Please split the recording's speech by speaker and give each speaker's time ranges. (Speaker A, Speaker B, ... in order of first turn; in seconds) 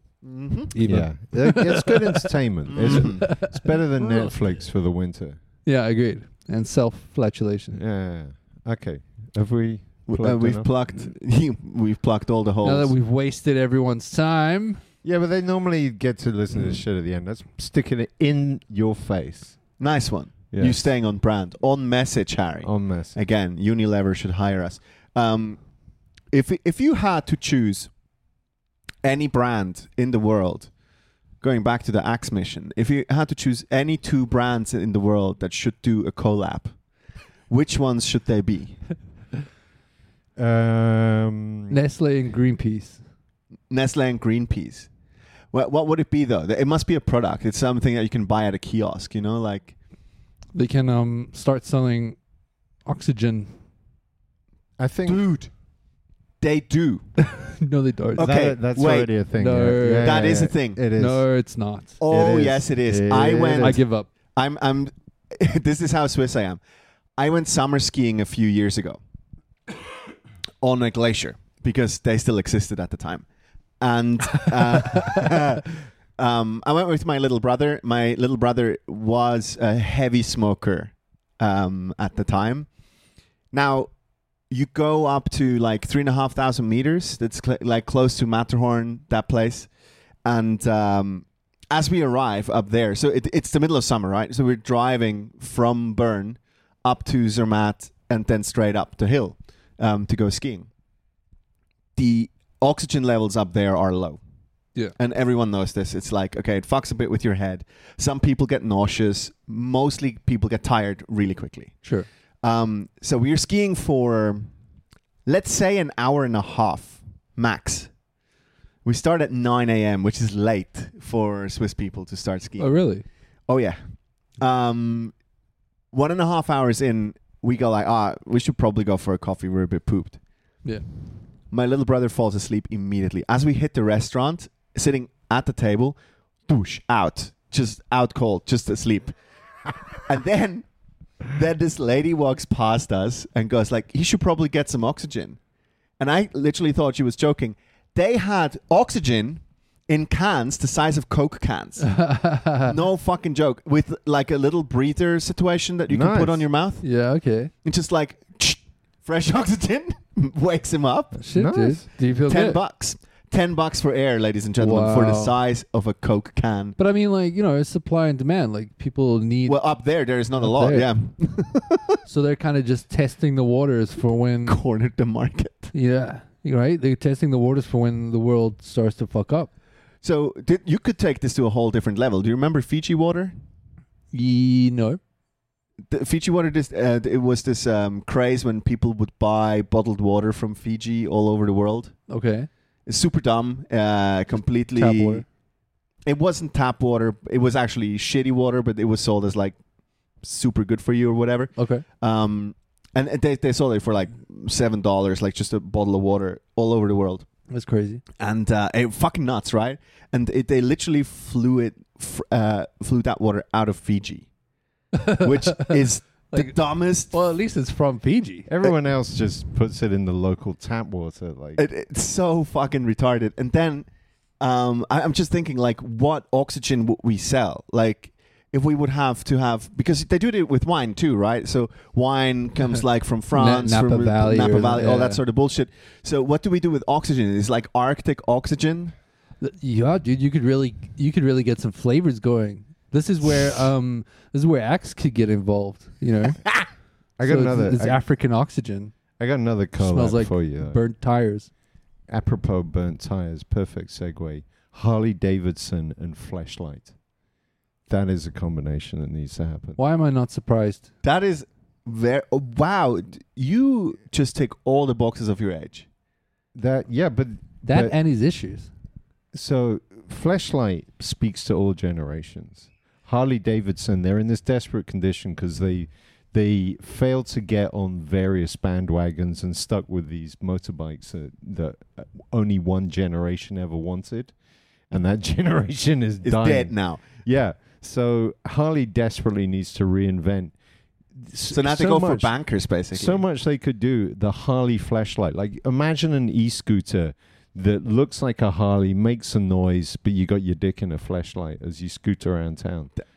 Speaker A: 0.2-0.7, 2.7-3.3, 10.1-12.9, 19.8-25.6, 26.3-27.9, 29.0-30.7, 31.4-36.7, 37.5-38.9, 43.7-44.9, 45.5-49.7, 55.0-55.5, 56.4-57.1, 58.2-59.1, 60.0-60.8, 62.0-63.8, 64.3-66.6, 67.2-69.0, 70.6-73.2, 73.8-82.7, 83.5-83.9, 84.5-89.7, 90.2-100.7, 102.0-104.2, 105.0-111.8, 112.4-114.5, 115.2-117.9, 118.8-122.8, 123.5-125.2, 125.9-130.2, 131.5-136.0, 136.5-139.2, 140.0-140.7, 141.2-145.4, 146.0-152.0, 152.6-156.8, 157.6-161.1, 162.3-166.8, 169.5-171.9, 174.4-175.7, 180.0-183.3, 185.9-192.0, 192.8-195.2, 196.1-199.6, 200.2-207.2, 208.2-214.3, 215.2-217.1, 221.6-223.9, 224.4-238.9, 261.0-265.9, 286.2-287.2, 291.5-293.2
Speaker B: 0.7-2.2, 2.9-4.3, 5.6-7.8, 12.6-14.8, 41.7-43.0, 50.5-52.2, 52.9-53.5, 57.2-58.3, 59.4-60.2, 61.0-62.0, 63.6-64.1, 122.6-123.0, 151.8-152.7, 156.8-157.5, 161.2-162.6, 164.6-165.3, 166.8-169.6, 170.4-170.9, 172.0-174.6, 175.7-179.5, 184.1-185.0, 192.1-192.5, 194.8-195.2, 201.6-201.8, 207.5-208.0, 214.9-215.7, 216.3-218.5, 233.3-235.2, 239.4-246.4, 247.2-248.9, 249.8-251.5, 259.8-260.8, 267.6-268.7
Speaker C: 0.8-5.4, 7.7-10.7, 15.0-19.6, 20.5-20.9, 22.6-23.2, 40.4-41.8, 54.8-55.2, 58.2-61.2, 62.1-63.8, 155.9-156.4, 161.3-161.8, 218.5-221.6, 247.2-248.0, 249.2-250.8, 252.1-256.9, 257.9-259.8, 266.5-267.9, 269.3-284.3, 284.9-290.5, 291.1-292.3, 292.9-302.9